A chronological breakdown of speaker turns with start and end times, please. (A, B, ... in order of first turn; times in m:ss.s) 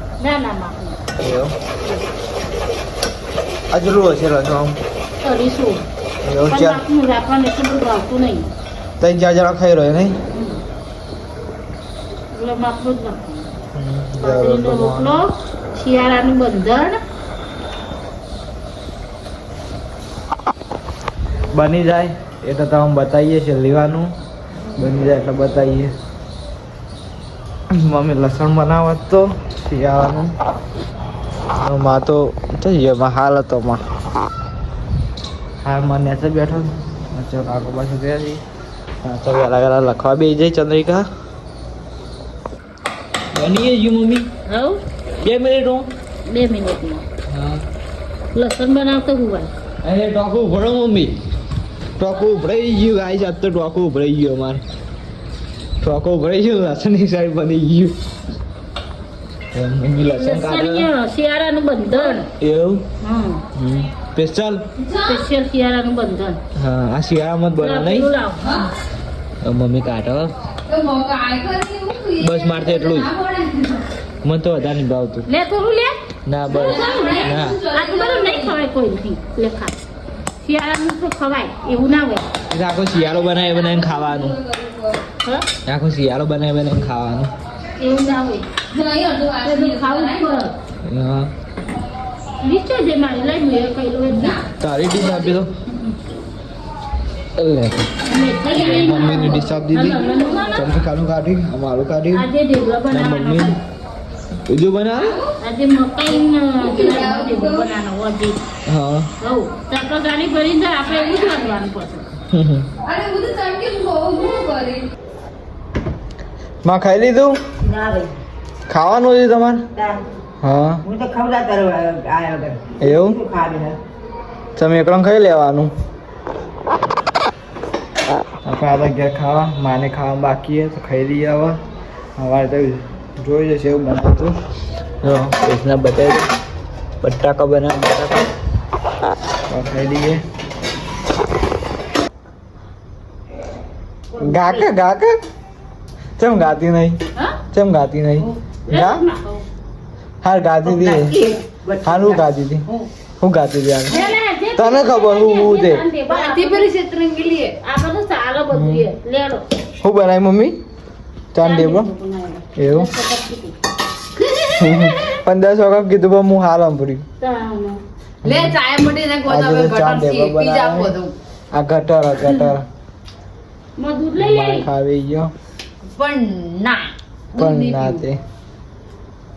0:00.2-0:01.1 A
0:01.2-0:01.5 B
0:03.7-0:04.8 B
0:05.2-0:05.8 A
0:06.2-0:06.8 B
0:06.5-0:08.5 A
0:09.0-0:10.2 B
0:10.3-0:10.6 A
0:12.3-0:13.6 A
0:13.7-0:15.2 B
0:14.2-0:17.0 A
0:21.5-0:24.1 B
0:24.7-0:25.9 B
0:27.7-0:30.4 B
0:31.6-0:33.8 B
0:35.6-0:38.4 B
0:39.0-0:41.1 B
0:43.3-0:44.3 B
0:44.5-0:44.8 A
0:45.2-0:45.9 B
0:46.2-0:47.1 A
0:47.3-0:47.6 B
0:48.3-0:49.5 A
0:49.8-0:51.2 B
0:52.0-0:54.6 B
0:55.8-0:58.0 B
0:59.5-1:00.9 B
1:00.1-1:02.3 A
1:02.4-1:02.9 B
1:03.0-1:03.4 A
1:03.6-1:04.7 B
1:04.9-1:06.4 A
1:06.6-1:08.1 B
1:07.6-1:08.7 A
1:09.4-1:10.4 B
1:10.7-1:13.9 C
1:12.2-1:13.1 B
1:14.2-1:15.2 B
1:15.3-1:19.8 A
1:16.2-1:17.6 B
1:16.9-1:18.5 C
1:20.4-1:22.3 A
1:22.5-1:24.4 B
1:24.4-1:25.0 C
1:25.2-1:25.5 A
1:25.7-1:27.3 B
1:27.8-1:28.5 A
1:28.7-1:30.2 C
1:29.4-1:30.5 A
1:30.8-1:31.3 B
1:32.4-1:34.4 A
1:34.6-1:35.5 B
1:37.4-1:37.9 B
1:38.0-1:40.7 A
1:38.5-1:42.2 B
1:42.1-1:43.6 A
1:42.9-1:43.6 B
1:44.5-1:45.2 B
1:45.4-1:48.4 A
1:48.7-1:49.1 B
1:49.2-1:52.1 A
1:52.3-1:52.7 B
1:52.8-1:54.9 C
1:56.6-1:57.4 B
1:57.6-1:58.2 D
1:58.7-1:59.6 B
1:59.8-2:00.0 D
2:00.4-2:00.8 B
2:00.8-2:03.8 D
2:02.8-2:03.2 B
2:04.6-2:05.7 B
2:08.4-2:11.6 B
2:12.2-2:14.4 B
2:15.0-2:16.3 B
2:17.0-2:18.3 B
2:19.5-2:20.2 B
2:24.1-2:24.6 A
2:24.2-2:25.2 B
2:26.2-2:27.0 B
2:27.5-2:29.0 B
2:28.7-2:29.4 A
2:30.2-2:31.2 B
2:30.7-2:32.1 D
2:30.7-2:32.2 C
2:31.8-2:32.6 B
2:33.2-2:34.0 B
2:33.9-2:36.7 A
2:34.6-2:35.8 B
2:36.1-2:37.6 C
2:37.6-2:39.5 A
2:38.5-2:38.8 B
2:39.8-2:40.6 B
2:41.3-2:41.9 B
2:41.4-2:43.6 A
2:42.6-2:42.9 B
2:44.6-2:47.0 B
2:47.2-2:47.8 A
2:48.2-2:48.6 B
2:48.2-2:51.1 C
2:49.2-2:51.0 B
2:51.5-2:52.7 B
2:53.8-2:54.7 A
2:54.2-2:55.3 B
2:55.9-2:58.0 C
2:57.4-2:58.2 B